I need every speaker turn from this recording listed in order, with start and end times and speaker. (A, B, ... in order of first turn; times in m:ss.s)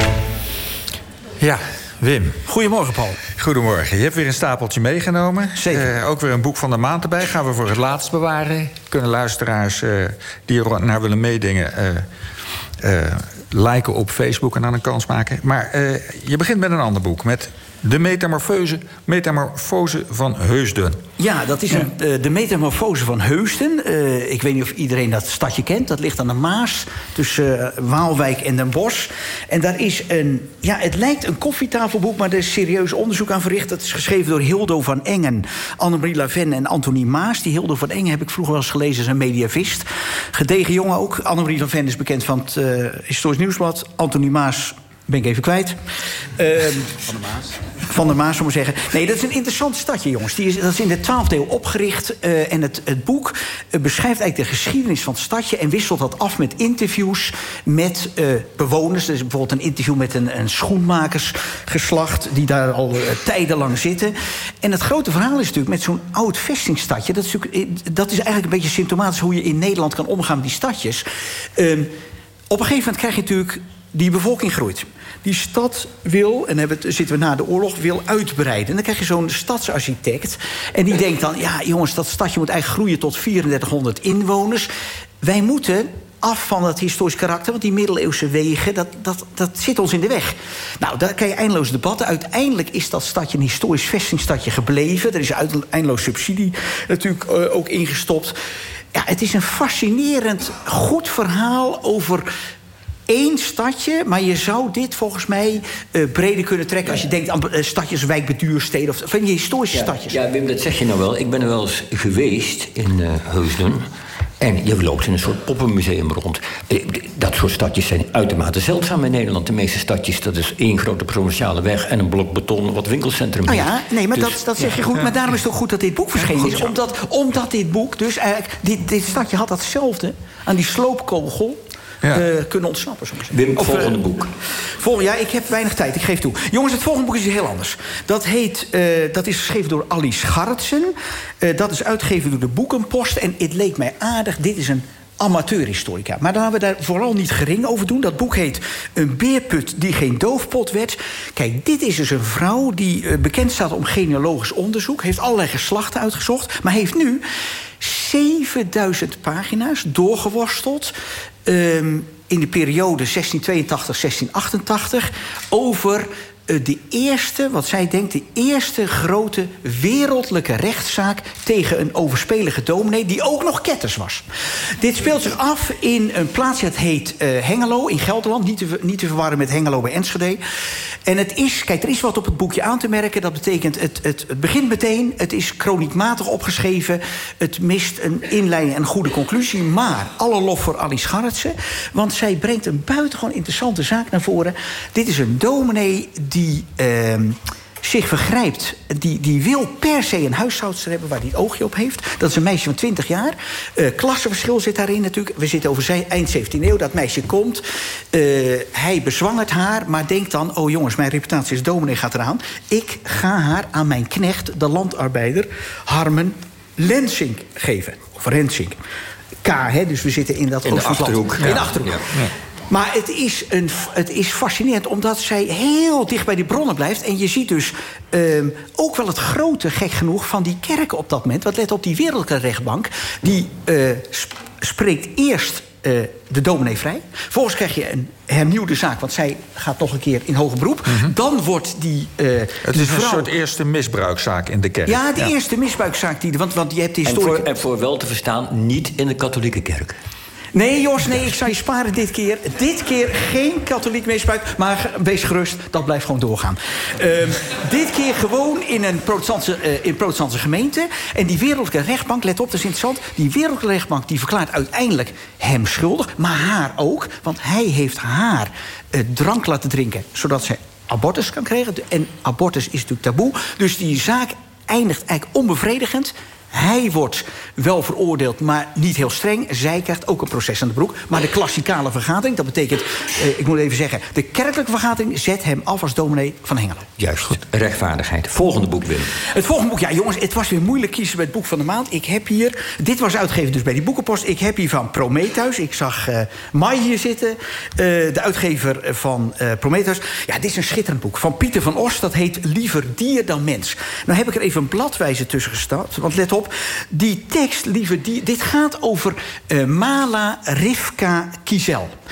0:01.4-0:02.4 A
0:02.5-0:03.2 B
0:03.4-0:12.1 A
0:05.6-0:05.9 B
0:12.8-0:21.0 A
0:21.2-0:45.8 B
0:46.4-1:11.0 B
1:11.6-1:11.9 B
1:12.5-1:24.7 B
1:25.2-1:38.4 B
1:38.9-1:42.3 B
1:43.1-1:50.2 B
1:49.7-1:53.8 C
1:54.4-2:04.3 C
2:03.5-2:14.0 B
2:13.3-2:14.3 C
2:14.6-2:37.2 B
2:37.8-2:40.9 B
2:41.4-2:54.2 B
2:54.8-3:00.4 B
3:01.1-3:38.8 B
3:39.4-3:42.0 B
3:40.6-3:42.1 C
3:41.4-3:42.3 A
3:42.7-4:03.3 B
4:02.6-4:05.3 A
4:04.9-4:07.5 B
4:07.0-4:10.0 C
4:10.5-4:46.9 B
4:47.0-4:49.1 C
4:49.2-5:11.9 B